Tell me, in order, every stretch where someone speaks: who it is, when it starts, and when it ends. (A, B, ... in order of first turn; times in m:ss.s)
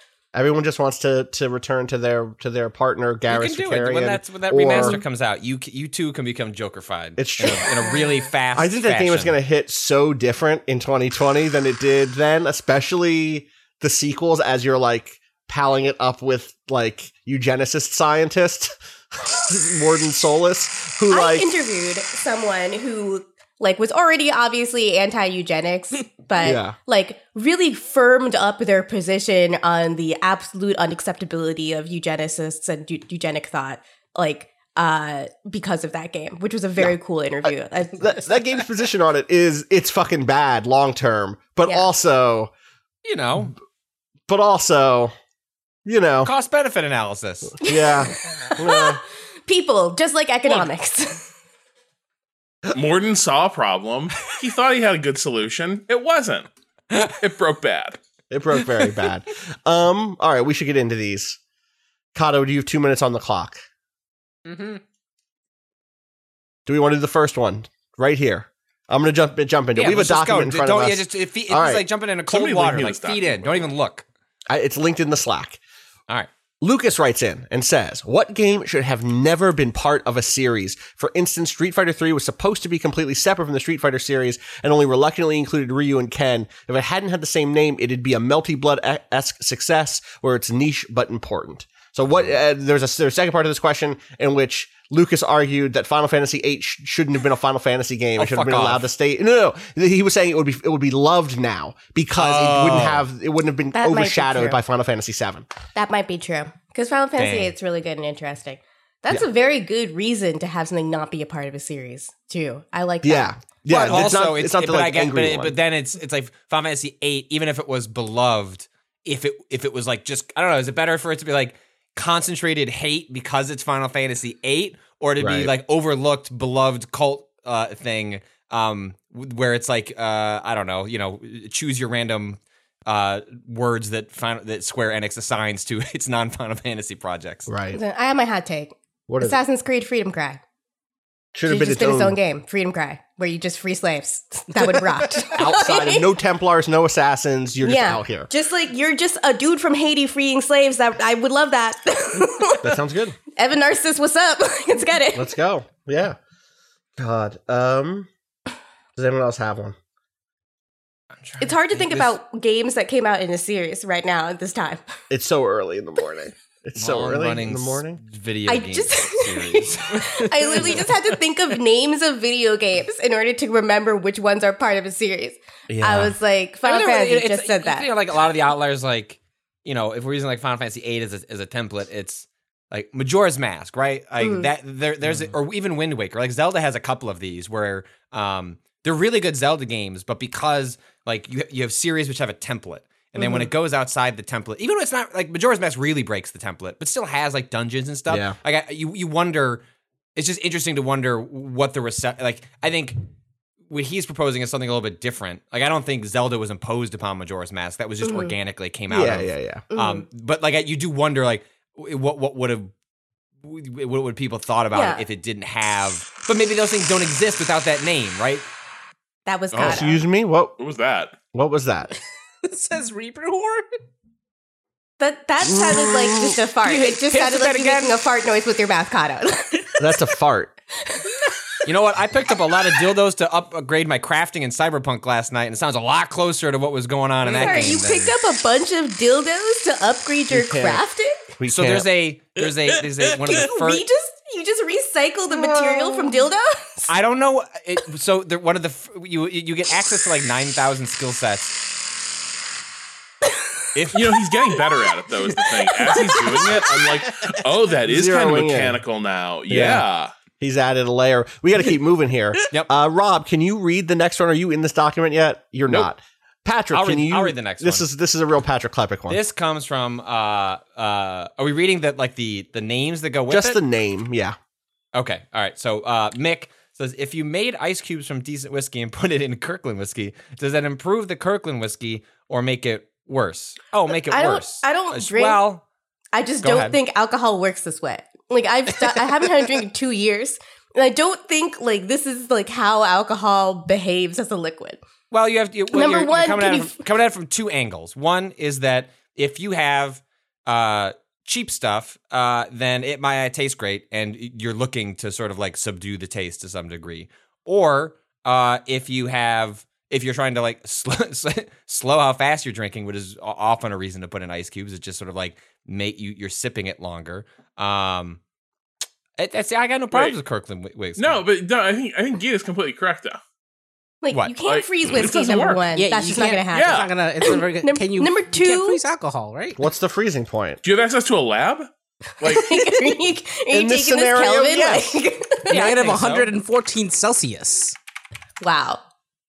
0:00.3-0:05.0 A
0:03.3-0:09.4 B
0:07.2-0:07.8 A
0:07.8-0:08.3 C
0:08.6-0:21.5 A
0:21.1-0:38.1 C
0:26.4-0:26.8 A
0:38.0-0:42.5 A
0:43.0-0:43.6 B
0:44.3-0:45.1 A
0:45.8-0:46.3 A
0:46.2-0:47.6 B
0:47.6-0:49.0 A
0:47.6-0:51.2 C
0:52.7-0:56.5 D
0:57.0-0:58.0 D
0:58.3-1:01.4 A
1:02.2-1:03.6 A
1:04.5-1:04.8 E
1:06.7-1:11.8 A
1:09.8-1:14.0 B
1:12.3-1:13.7 D
1:14.5-1:15.6 A
1:16.6-1:45.5 A
1:38.2-1:38.9 B
1:42.2-1:43.1 B
1:43.7-1:44.6 C
1:45.8-1:53.3 C
1:47.2-1:47.5 B
1:53.0-1:55.6 A
1:53.7-2:17.5 B
2:05.2-2:05.5 A
2:17.5-2:17.8 A
2:17.7-2:20.4 C
2:19.1-2:19.4 A
2:21.3-2:22.2 A
2:21.5-2:26.1 C
2:24.6-2:25.3 E
2:25.3-2:28.3 A
2:27.6-2:32.8 C
2:32.6-2:33.2 A
2:33.4-2:35.3 C
2:35.1-2:36.2 A
2:37.0-2:38.1 A
2:39.0-2:39.8 A
2:41.2-2:42.2 B
2:41.4-2:44.8 C
2:45.1-2:48.0 A
2:46.8-2:50.9 B
2:48.5-2:57.9 C
2:55.7-2:56.2 A
2:56.6-3:19.6 B
3:04.2-3:04.5 C
3:13.2-3:13.5 C
3:18.1-3:18.4 A
3:20.2-3:23.0 B
3:23.7-3:32.7 B
3:28.0-3:28.3 C
3:28.9-3:29.6 A
3:29.7-3:30.0 C
3:33.4-3:38.4 B
3:34.7-3:35.0 C
3:39.3-3:40.0 C
3:39.5-3:40.0 D
3:39.6-3:40.5 A
3:40.6-3:41.2 D
3:41.3-3:41.9 A
3:42.4-3:43.7 E
3:45.0-3:49.8 C
3:45.4-3:46.4 A
3:46.6-3:48.0 B
3:49.8-3:50.5 A
3:51.6-3:58.1 B
3:57.2-4:01.2 C
4:00.3-4:00.8 A
4:01.4-4:01.9 A
4:01.5-4:03.8 B
4:03.2-4:06.9 C
4:05.4-4:06.1 A
4:06.9-4:11.6 B
4:13.8-4:14.2 B
4:13.9-4:20.1 D
4:15.9-4:16.6 C
4:17.9-4:18.8 A
4:19.5-4:19.9 A
4:20.4-4:29.2 A
4:26.7-4:27.9 B
4:29.1-4:33.6 B
4:33.3-4:34.4 A
4:34.9-4:45.6 B
4:44.1-4:45.4 C
4:46.1-4:54.8 C
4:46.4-4:46.8 B
4:55.1-5:18.2 B
4:55.7-4:56.8 C
5:19.2-5:21.2 B
5:21.0-5:23.2 D
5:24.0-5:28.8 C
5:24.4-5:25.7 D
5:25.7-5:29.6 E
5:26.5-5:26.9 D
5:29.6-5:30.6 A
5:30.6-5:31.7 D
5:32.2-5:32.6 D
5:32.2-5:35.7 C
5:33.5-5:35.0 A
5:35.5-5:37.8 E
5:35.5-5:36.3 B
5:38.4-5:38.8 C